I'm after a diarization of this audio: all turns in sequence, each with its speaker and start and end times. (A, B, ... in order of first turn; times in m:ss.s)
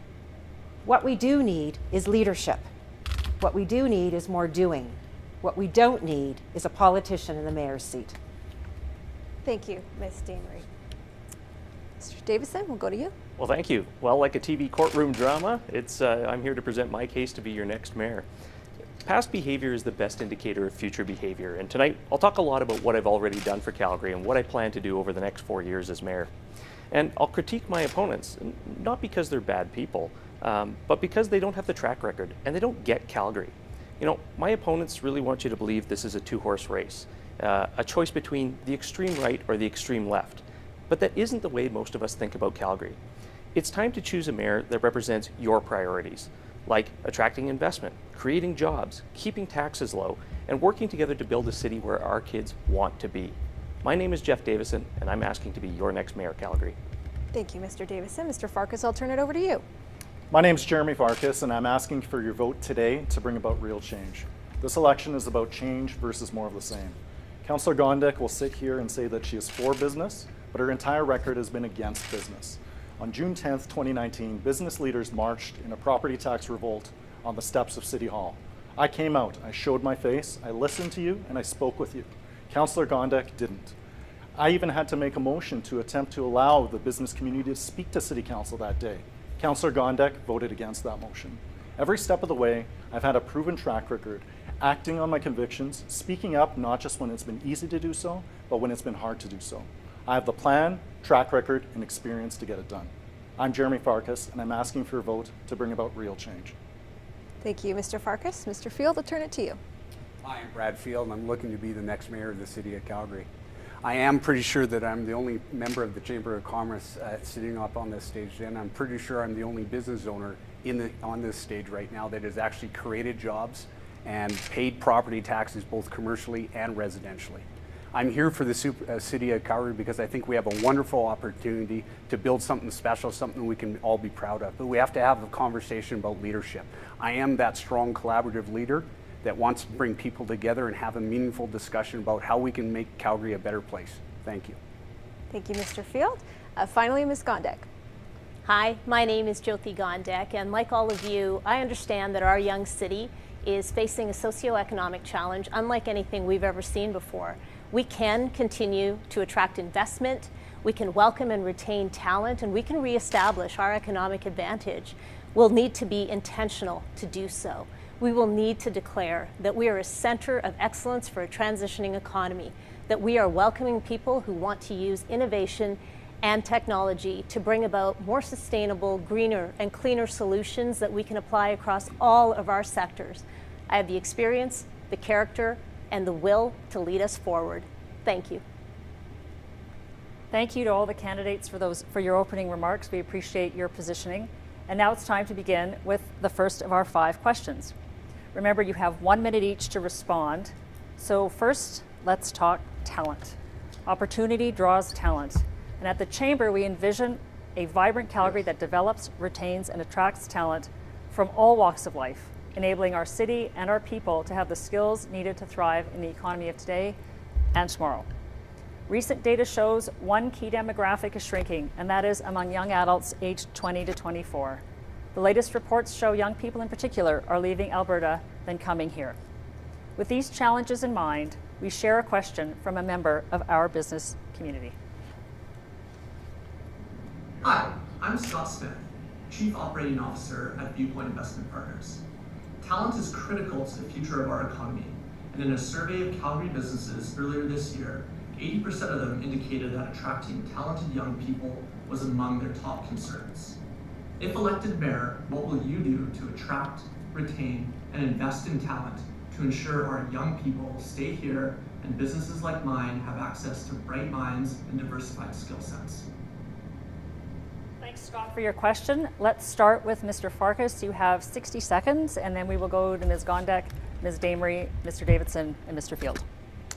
0:00.8-0:02.7 A
0:03.4-0:08.2 A
0:09.4-0:10.7 B
0:12.0-0:13.1 B
0:13.4-0:18.3 C
0:19.0-0:26.3 C
0:26.9-0:43.0 C
0:43.5-0:56.8 C
0:57.3-0:59.6 B
1:00.3-1:23.7 D
1:24.4-1:46.5 D
1:47.4-1:49.6 B
1:50.2-1:53.3 E
1:53.8-2:24.6 E
2:25.3-2:27.7 B
2:28.4-3:08.4 F
3:10.3-3:17.7 G
3:18.3-3:37.0 G
3:37.5-3:38.1 G
3:38.9-3:44.6 G
3:45.1-3:49.2 G
3:50.0-3:54.8 G
3:57.4-4:02.0 H
4:02.6-4:13.6 H
4:14.2-4:26.1 H
4:27.8-4:36.2 G